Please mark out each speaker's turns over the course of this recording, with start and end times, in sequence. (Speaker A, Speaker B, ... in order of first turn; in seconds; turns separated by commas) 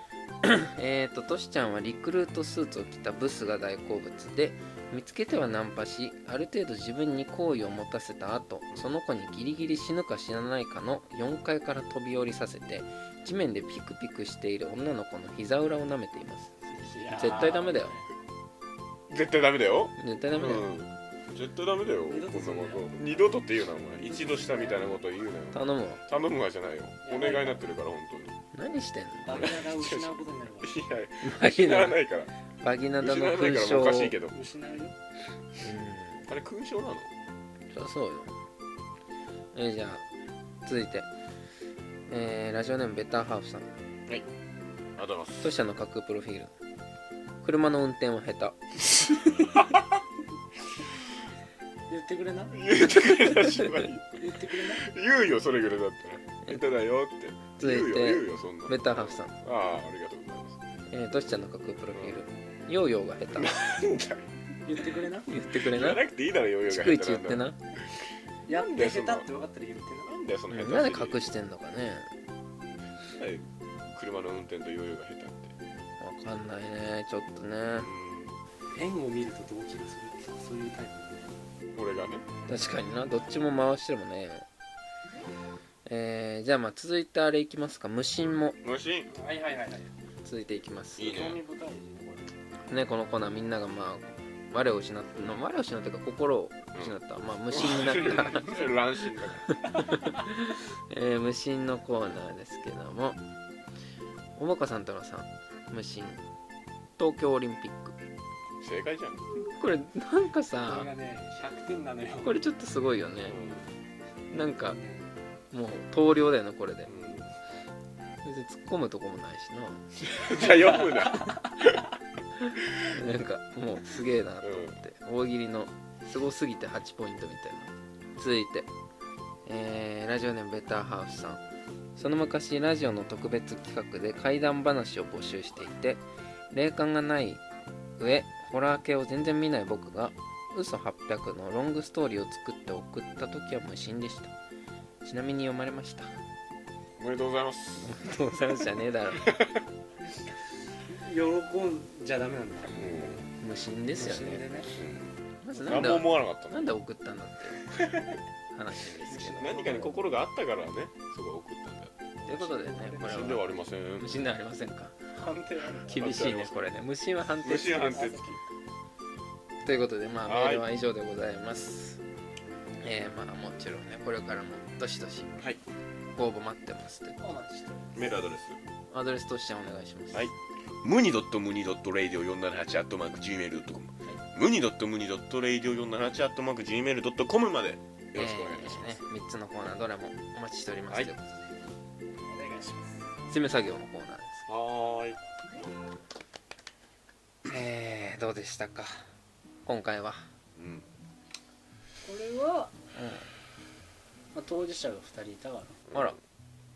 Speaker A: 0.4-16.5, Speaker B: 16.7-18.0, Speaker A: 17.1-17.9, Speaker C: 19.1-28.4, Speaker A: 20.0-20.7, Speaker B: 22.1-23.1, Speaker B: 24.0-24.9, Speaker A: 25.5-26.0, Speaker B: 27.0-27.6, Speaker A: 28.5-29.6, Speaker B: 29.2-30.8, Speaker C: 29.3-32.3, Speaker A: 31.2-32.0, Speaker A: 32.6-34.1, Speaker C: 33.0-34.3, Speaker B: 34.3-34.9, Speaker A: 35.6-36.3, Speaker C: 36.3-37.1, Speaker A: 37.7-38.3, Speaker A: 39.5-40.0, Speaker A: 40.6-41.1, Speaker A: 42.1-43.7, Speaker C: 45.0-45.5, Speaker A: 45.4-46.5, Speaker A: 47.4-49.5, Speaker B: 51.9-52.7, Speaker C: 52.5-60.6, Speaker A: 53.3-53.6, Speaker B: 54.1-54.9, Speaker A: 57.6-59.3, Speaker A: 60.9-63.5, Speaker C: 61.9-62.2, Speaker C: 63.3-64.3, Speaker B: 64.6-65.3, Speaker A: 65.3-66.0, Speaker C: 65.6-67.8, Speaker A: 66.7-67.6, Speaker B: 68.5-70.1, Speaker C: 68.5-69.3, Speaker C: 70.0-71.2, Speaker A: 70.5-72.1, Speaker C: 73.1-75.5, Speaker A: 76.0-77.9, Speaker C: 77.8-78.4, Speaker B: 78.7-81.3, Speaker C: 81.7-82.2, Speaker A: 82.5-84.4, Speaker A: 85.8-88.6, Speaker C: 88.6-89.1, Speaker B: 89.1-89.9, Speaker A: 90.2-91.3, Speaker C: 91.0-91.4, Speaker B: 91.0-92.3, Speaker A: 92.7-98.6, Speaker C: 95.1-95.4, Speaker C: 96.7-97.0, Speaker C: 97.5-99.5, Speaker A: 99.7-103.2, Speaker A: 104.4-106.2, Speaker A: 107.0-107.9, Speaker C: 108.6-109.2, Speaker A: 109.4-110.9, Speaker B: 110.7-112.4, Speaker A: 112.2-113.4, Speaker C: 113.2-113.7, Speaker A: 114.3-114.8, Speaker B: 114.6-115.1, Speaker A: 115.5-116.9, Speaker C: 116.8-117.3, Speaker A: 118.2-119.8, Speaker C: 120.0-121.8, Speaker B: 120.3-121.5, Speaker A: 122.4-128.7, Speaker C: 124.4-124.8, Speaker A: 129.4-131.4, Speaker A: 132.0-137.4, Speaker A: 138.0-144.3, Speaker A: 145.0-146.1, Speaker C: 147.0-148.0, Speaker A: 147.8-149.4, Speaker C: 149.2-149.5, Speaker B: 150.9-152.8, Speaker C: 152.8-153.3, Speaker A: 153.4-154.4, Speaker B: 153.9-154.7, Speaker C: 154.7-156.7, Speaker A: 155.4-157.8, Speaker B: 157.7-158.1, Speaker A: 158.5-159.8, Speaker B: 159.0-160.0, Speaker C: 159.4-161.9, Speaker B: 162.2-163.5, Speaker A: 162.3-164.9, Speaker C: 163.0-164.1, Speaker B: 165.1-166.3, Speaker A: 165.9-168.1, Speaker C: 165.9-166.7, Speaker C: 167.4-168.4, Speaker B: 167.7-168.3, Speaker A: 169.6-172.0, Speaker C: 170.2-170.7, Speaker A: 172.8-175.3, Speaker A: 176.1-177.4, Speaker B: 177.2-178.1, Speaker C: 177.9-178.6, Speaker A: 178.9-180.3, Speaker C: 180.1-189.1, Speaker A: 188.1-191.3, Speaker B: 192.2-193.1, Speaker A: 193.3-194.5, Speaker C: 194.5-195.2, Speaker A: 197.5-199.0, Speaker A: 199.7-200.2, Speaker C: 200.6-200.8, Speaker B: 202.0-202.7, Speaker A: 202.9-203.2, Speaker B: 204.3-205.8, Speaker C: 205.9-206.2